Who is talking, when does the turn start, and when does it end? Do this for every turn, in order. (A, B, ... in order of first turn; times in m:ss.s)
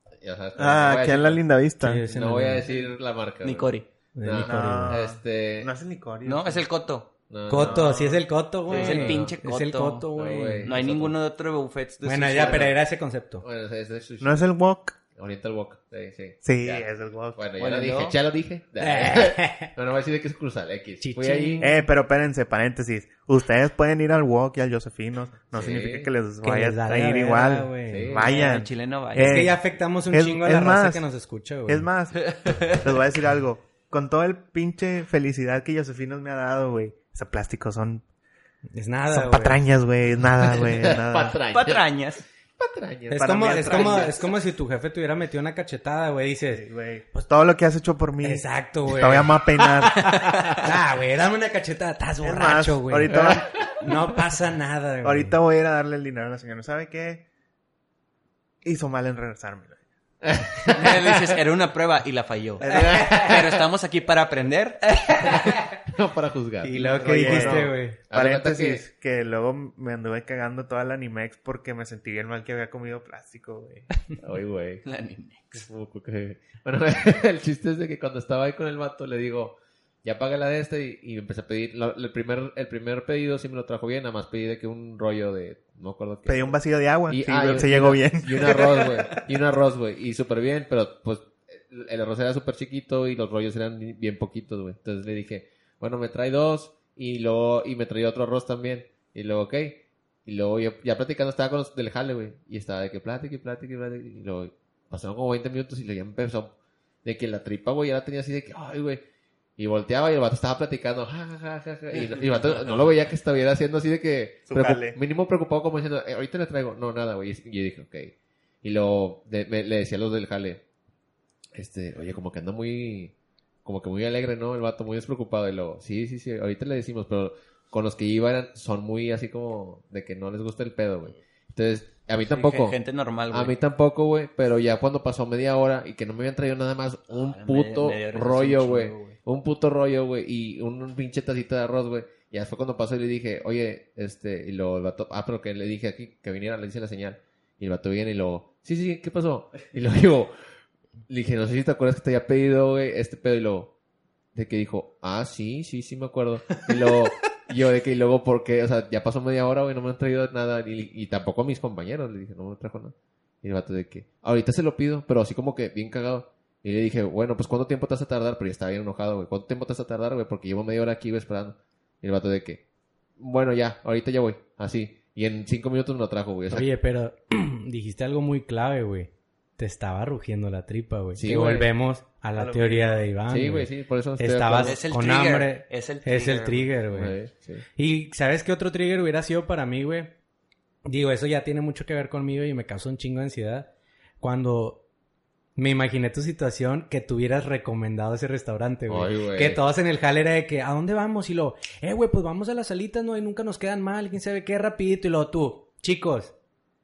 0:00.2-0:01.4 A
0:00.6-0:02.0 B
0:01.8-0:02.6 C
0:02.1-0:05.7 A
0:02.7-0:03.9 D
0:04.1-0:05.0 C
0:04.4-0:06.7 B
0:06.2-0:07.1 D
0:07.3-0:08.2 A
0:07.5-0:10.7 C
0:07.5-0:08.2 B
0:08.7-0:12.7 D
0:08.7-0:09.3 A
0:10.1-0:11.2 A
0:12.0-0:13.4 C
0:12.4-0:12.8 A
0:13.4-0:14.4 A
0:14.2-0:15.0 B
0:15.1-0:21.7 A
0:16.4-0:17.4 B
0:17.6-0:18.2 D
0:18.8-0:19.7 C
0:21.0-0:21.8 C
0:21.6-0:31.0 B
0:25.5-0:26.1 A
0:26.4-0:28.2 C
0:27.9-0:28.3 A
0:28.2-0:29.4 D
0:29.2-0:31.9 C
0:31.7-0:38.0 B
0:32.2-0:32.8 D
0:38.8-0:39.6 C
0:39.1-0:41.4 B
0:40.7-0:41.8 A
0:41.5-0:42.2 D
0:42.6-0:44.1 A
0:43.1-0:47.2 C
0:43.1-0:44.3 B
0:46.5-0:50.2 B
0:48.2-0:55.4 C
0:52.2-0:53.7 B
0:55.0-0:57.2 B
0:58.6-0:59.8 B
1:00.3-1:01.2 A
1:00.7-1:04.8 D
1:02.6-1:03.4 C
1:04.8-1:05.6 C
1:05.8-1:08.8 A
1:06.6-1:08.0 C
1:07.0-1:13.9 B
1:14.2-1:14.8 A
1:14.8-1:15.6 D
1:15.5-1:26.6 A
1:26.2-1:29.1 B
1:27.1-1:49.0 A
1:49.6-2:00.6 A
1:54.5-1:55.0 B
2:01.5-2:12.8 A
2:12.2-2:13.6 D
2:13.3-2:30.3 A
2:17.1-2:19.2 D
2:31.1-2:33.7 A
2:34.3-2:52.6 A
2:53.2-2:56.6 A
2:56.5-3:07.2 C
3:01.1-3:01.7 A
3:02.3-3:03.1 B
3:03.3-3:04.8 A
3:04.6-3:06.7 D
3:06.9-3:07.6 A
3:07.8-3:10.1 C
3:10.8-3:14.8 C
3:15.6-3:26.3 C
3:18.9-3:19.6 A